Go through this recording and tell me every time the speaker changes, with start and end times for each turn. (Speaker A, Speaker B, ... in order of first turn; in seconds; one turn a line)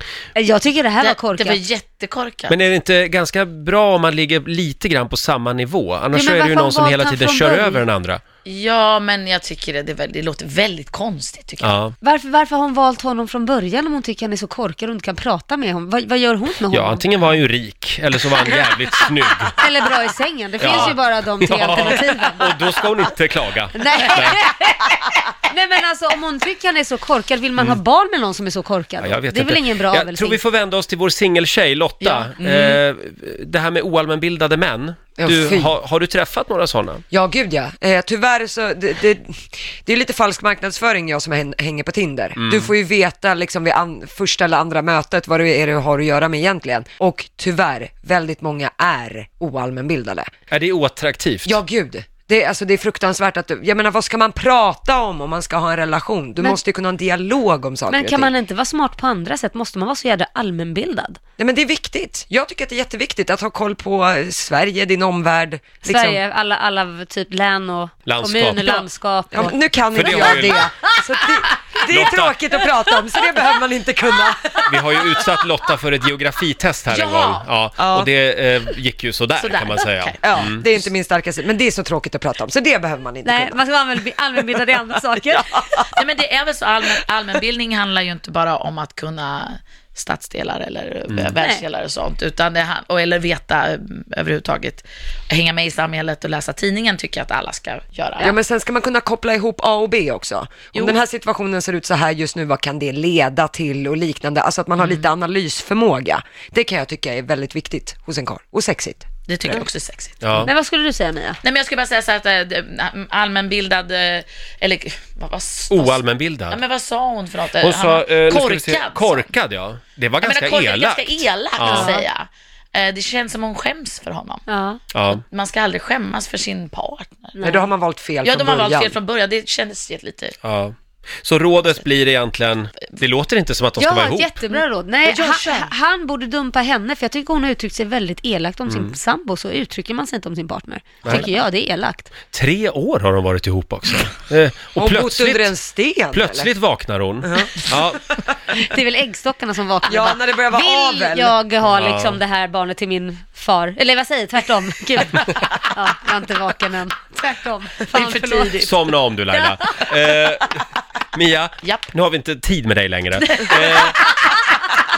Speaker A: 0.3-1.6
Speaker B: 1.0-2.5
Speaker C: 2.5-8.2
Speaker A: 6.1-7.8
Speaker B: 8.4-11.7
Speaker C: 11.6-11.9
Speaker A: 12.0-17.1
Speaker C: 16.7-19.6
Speaker A: 19.5-22.8
Speaker C: 20.6-24.4
Speaker A: 23.7-30.4
Speaker C: 29.0-37.0
Speaker B: 32.0-32.8
Speaker D: 35.2-35.7
Speaker D: 37.1-50.3
Speaker C: 42.4-42.7
Speaker C: 50.5-51.6
Speaker D: 51.5-58.3
Speaker A: 57.9-61.2
Speaker D: 61.4-66.2
Speaker A: 65.8-71.5
Speaker C: 68.1-68.9
Speaker D: 69.3-75.1
Speaker C: 69.9-70.7
Speaker C: 71.9-72.4
Speaker C: 74.7-80.6
Speaker B: 76.9-77.5
Speaker D: 77.8-78.1
Speaker B: 79.4-80.2
Speaker D: 80.2-83.6
Speaker A: 83.2-85.8
Speaker D: 85.4-85.8
Speaker B: 85.9-98.3
Speaker A: 91.4-91.6
Speaker D: 98.2-109.7
Speaker B: 104.8-105.0
Speaker B: 109.3-110.3
Speaker C: 110.2-110.5
Speaker A: 110.4-111.4
Speaker B: 111.4-119.3
Speaker C: 115.7-116.6
Speaker C: 117.6-121.9
Speaker B: 120.2-124.4
Speaker A: 121.6-122.1
Speaker A: 124.5-124.8
Speaker C: 124.9-125.2
Speaker B: 125.2-127.4
Speaker A: 127.4-127.7
Speaker D: 127.4-129.0
Speaker B: 128.2-130.4
Speaker C: 130.4-134.4
Speaker A: 133.8-142.1
Speaker B: 135.1-135.6
Speaker D: 135.3-135.6
Speaker C: 138.7-139.0
Speaker C: 142.3-145.5
Speaker D: 144.8-146.5
Speaker C: 146.1-148.1
Speaker D: 147.2-147.5
Speaker A: 148.5-158.6
Speaker D: 149.9-151.3
Speaker C: 151.7-152.2
Speaker B: 157.9-158.7
Speaker C: 158.6-164.1
Speaker A: 159.3-159.9
Speaker B: 161.6-161.9
Speaker B: 163.2-164.3